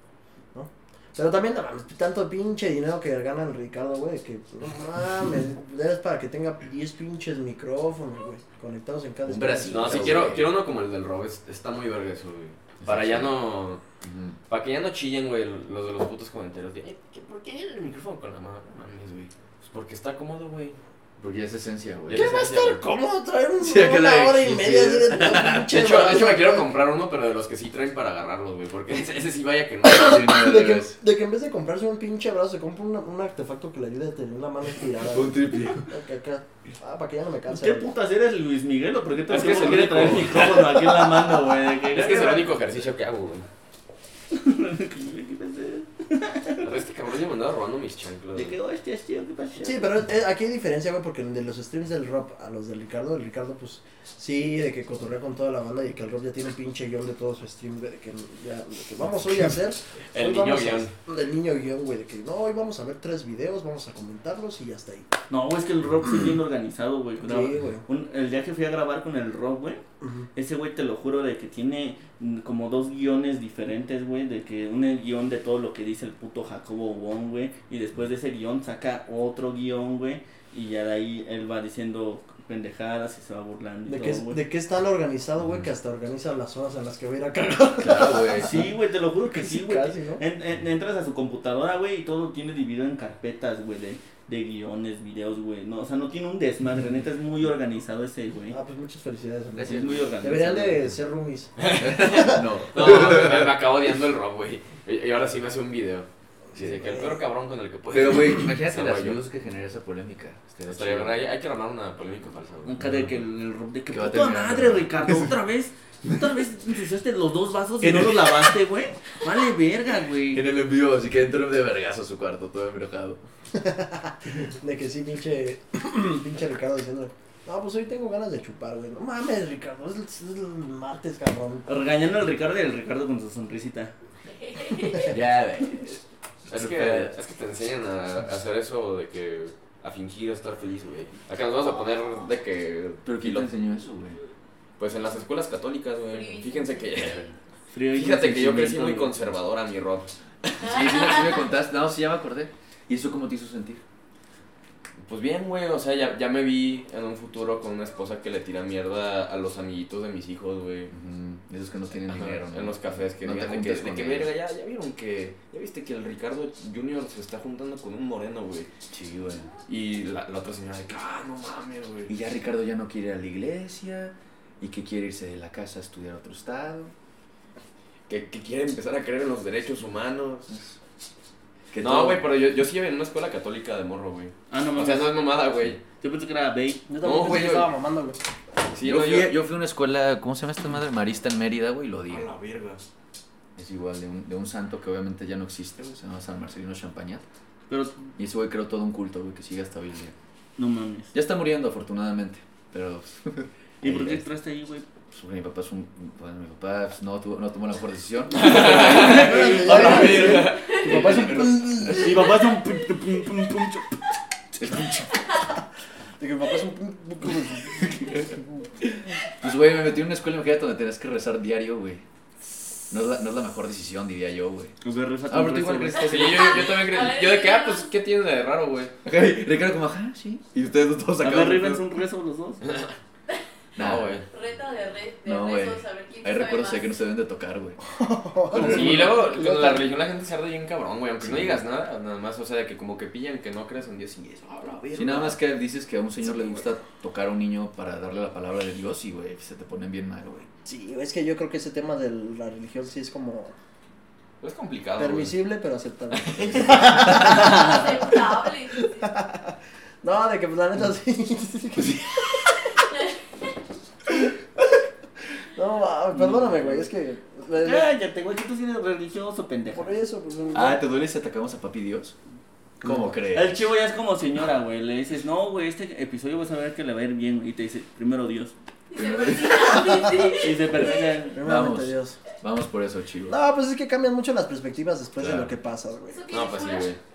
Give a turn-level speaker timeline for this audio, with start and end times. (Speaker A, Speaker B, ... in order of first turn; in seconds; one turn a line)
Speaker A: 0.5-10.2
Speaker B: 9.2-10.5
Speaker C: 9.7-13.8
Speaker B: 12.8-13.3
Speaker B: 14.0-14.4
Speaker C: 14.5-20.8
Speaker B: 21.2-22.3
Speaker C: 22.1-22.9
Speaker A: 22.1-26.7
Speaker B: 23.6-25.7
Speaker C: 25.7-30.2
Speaker B: 29.9-31.0
Speaker A: 29.9-37.9
Speaker B: 35.0-35.9
Speaker D: 37.5-42.7
Speaker C: 39.3-43.5
Speaker D: 44.3-46.7
Speaker C: 46.6-48.6
Speaker D: 48.3-49.9
Speaker A: 49.6-65.1
Speaker C: 60.1-60.9
Speaker D: 65.3-69.8
Speaker A: 67.2-67.8
Speaker A: 70.0-70.3
Speaker D: 70.3-84.4
Speaker A: 83.9-90.2
Speaker B: 87.8-88.7
Speaker D: 88.3-98.6
Speaker A: 98.5-102.4
Speaker D: 99.6-100.9
Speaker C: 101.6-109.2
Speaker B: 101.8-103.5
Speaker A: 106.5-107.1
Speaker B: 107.9-111.2
Speaker C: 110.7-112.8
Speaker D: 112.6-120.4
Speaker B: 112.8-113.2
Speaker B: 113.9-115.3
Speaker B: 117.8-118.6
Speaker B: 120.3-123.2
Speaker A: 123.5-131.7
Speaker D: 131.7-133.9
Speaker E: 134.2-135.2
Speaker B: 135.1-137.1
Speaker C: 136.5-143.5
Speaker B: 143.0-144.2
Speaker C: 144.8-147.2
Speaker E: 146.1-147.2
Speaker D: 147.7-149.3
Speaker C: 147.9-150.6
Speaker E: 150.6-151.5
Speaker B: 150.6-153.8
Speaker C: 155.1-160.9
Speaker B: 160.9-164.3
Speaker C: 162.1-168.7
Speaker B: 168.9-169.5
Speaker C: 169.7-172.1
Speaker B: 172.1-176.9
Speaker C: 178.1-180.5
Speaker B: 180.5-180.8
Speaker B: 181.7-182.2
Speaker C: 181.8-185.8
Speaker D: 184.5-185.2
Speaker D: 185.9-186.8
Speaker A: 186.9-188.2
Speaker C: 187.0-187.7
Speaker C: 188.6-189.3
Speaker B: 188.8-192.3
Speaker C: 192.1-192.8
Speaker B: 193.6-197.2
Speaker D: 197.7-198.0
Speaker B: 198.2-200.1
Speaker D: 200.6-201.1
Speaker B: 201.1-204.2
Speaker D: 203.8-204.8
Speaker B: 205.1-212.2
Speaker C: 208.3-210.8
Speaker D: 208.7-214.0
Speaker A: 208.8-212.4
Speaker B: 214.6-215.1
Speaker A: 216.2-218.7
Speaker B: 219.4-222.0
Speaker B: 222.9-226.8
Speaker D: 224.8-226.4
Speaker C: 226.0-228.9
Speaker E: 226.2-227.9
Speaker B: 229.0-231.8
Speaker D: 231.2-232.6
Speaker C: 232.6-232.9
Speaker B: 233.8-234.2
Speaker C: 233.8-234.2
Speaker E: 234.3-236.9
Speaker B: 235.2-237.8
Speaker A: 237.9-239.8
Speaker B: 238.5-239.1
Speaker C: 238.5-245.4
Speaker B: 241.2-241.6
Speaker B: 244.9-250.5
Speaker A: 250.6-253.5
Speaker C: 254.4-255.3
Speaker A: 255.0-258.1
Speaker C: 256.4-256.7
Speaker E: 257.1-259.1
Speaker A: 258.7-262.1
Speaker A: 265.5-267.9
Speaker D: 266.1-266.9
Speaker D: 267.6-270.0
Speaker A: 269.7-270.8
Speaker B: 270.5-272.1
Speaker B: 272.8-273.6
Speaker D: 273.3-278.5
Speaker E: 278.9-281.0
Speaker B: 278.9-280.2
Speaker A: 279.8-280.3
Speaker D: 280.4-281.4
Speaker A: 281.3-282.2
Speaker B: 281.4-283.4
Speaker A: 283.3-286.2
Speaker B: 285.2-285.5
Speaker E: 286.1-286.9
Speaker C: 286.3-287.0